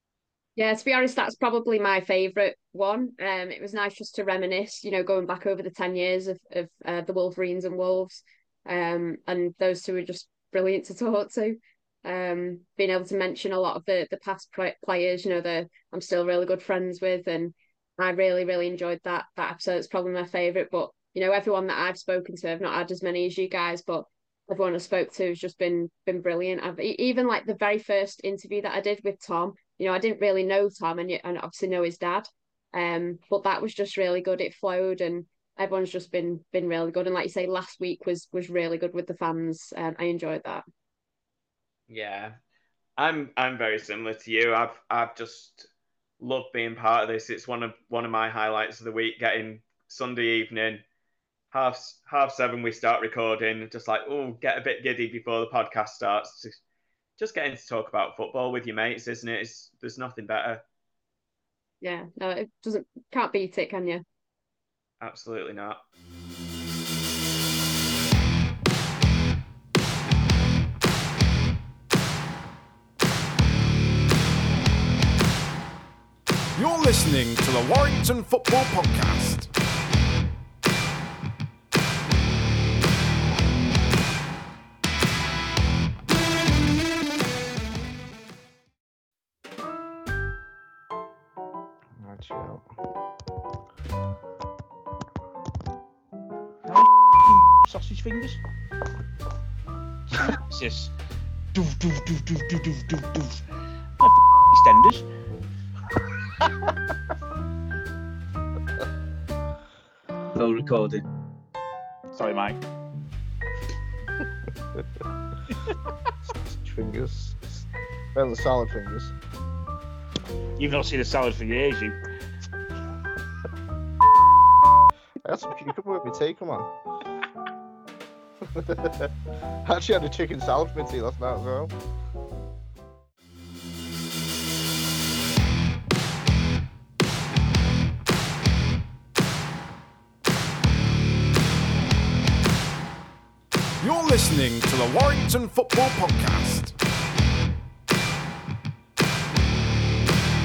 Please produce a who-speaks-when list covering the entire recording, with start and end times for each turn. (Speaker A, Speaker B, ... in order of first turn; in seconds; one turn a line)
Speaker A: 0.6-40.6
Speaker B: 41.9-42.4
Speaker B: 43.0-45.7
Speaker B: 46.2-50.8
Speaker B: 51.5-56.6
Speaker B: 57.2-60.6
Speaker A: 61.8-64.0
Speaker B: 65.0-65.8
Speaker C: 76.5-79.5
Speaker D: 92.0-92.7
Speaker E: 96.7-98.4
Speaker E: 100.2-100.9
Speaker E: 101.5-103.4
Speaker E: 104.0-105.0
Speaker E: 110.3-111.0
Speaker E: 112.1-112.6
Speaker D: 116.5-117.6
Speaker D: 118.1-119.1
Speaker E: 120.6-122.0
Speaker D: 125.2-126.7
Speaker D: 128.5-129.1
Speaker D: 129.6-131.7
Speaker C: 143.8-146.7